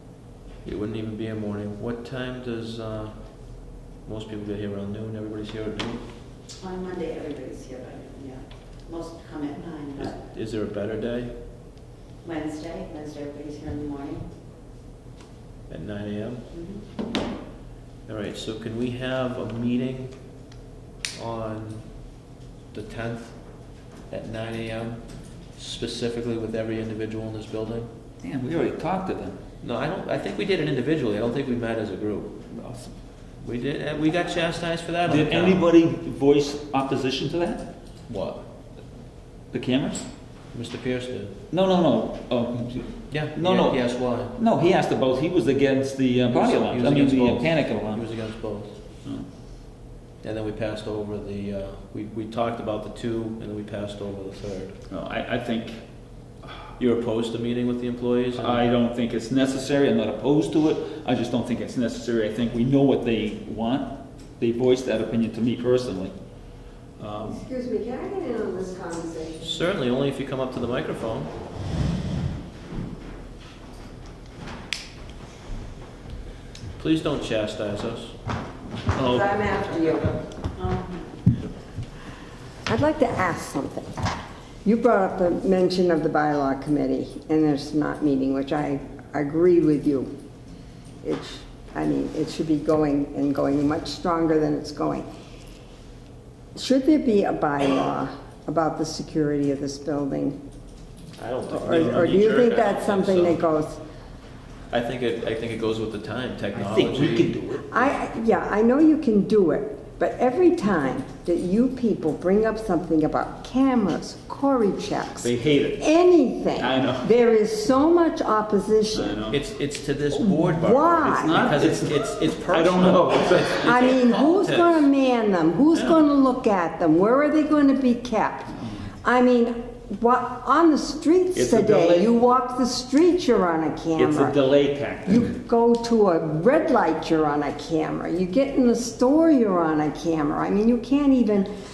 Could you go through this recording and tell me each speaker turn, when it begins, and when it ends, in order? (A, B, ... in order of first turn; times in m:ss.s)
0:00.6-0:03.2 A
0:04.0-0:06.0 A
0:06.6-0:10.1 B
0:10.0-0:11.3 A
0:12.2-0:14.3 B
0:15.7-0:16.5 A
0:18.1-0:20.2 A
0:21.2-0:21.9 A
0:22.7-0:23.4 A
0:24.1-0:25.0 A
0:25.6-0:27.9 A
0:28.2-0:29.4 C
0:29.6-0:32.4 A
0:32.5-0:32.9 C
0:33.4-0:35.6 A
0:35.1-0:37.7 C
0:38.1-0:38.4 A
0:39.5-0:40.1 C
0:40.5-0:41.3 A
0:41.5-0:48.1 C
0:43.1-0:44.3 A
0:46.3-0:48.7 A
0:50.2-0:54.7 A
0:54.9-0:55.8 C
0:56.8-0:58.7 A
0:58.4-1:06.1 C
1:07.0-1:07.4 C
1:07.2-1:09.6 D
1:09.4-1:11.3 A
1:16.8-1:18.2 A
1:18.9-1:20.2 D
1:20.6-1:21.1 B
1:22.7-1:23.9 D
1:24.6-1:30.1 D
1:31.0-1:35.1 D
1:36.6-1:40.4 D
1:41.2-1:43.4 A
1:41.5-1:43.8 D
1:44.7-1:47.3 A
1:46.6-1:47.9 C
1:47.7-1:59.2 D
1:55.2-1:56.0 C
1:56.6-1:57.1 C
1:58.9-1:59.4 C
1:59.3-2:04.9 A
2:00.2-2:01.5 D
2:01.2-2:03.9 C
2:03.6-2:14.4 D
2:05.7-2:06.0 A
2:11.3-2:12.2 C
2:14.0-2:15.3 C
2:15.1-2:21.5 D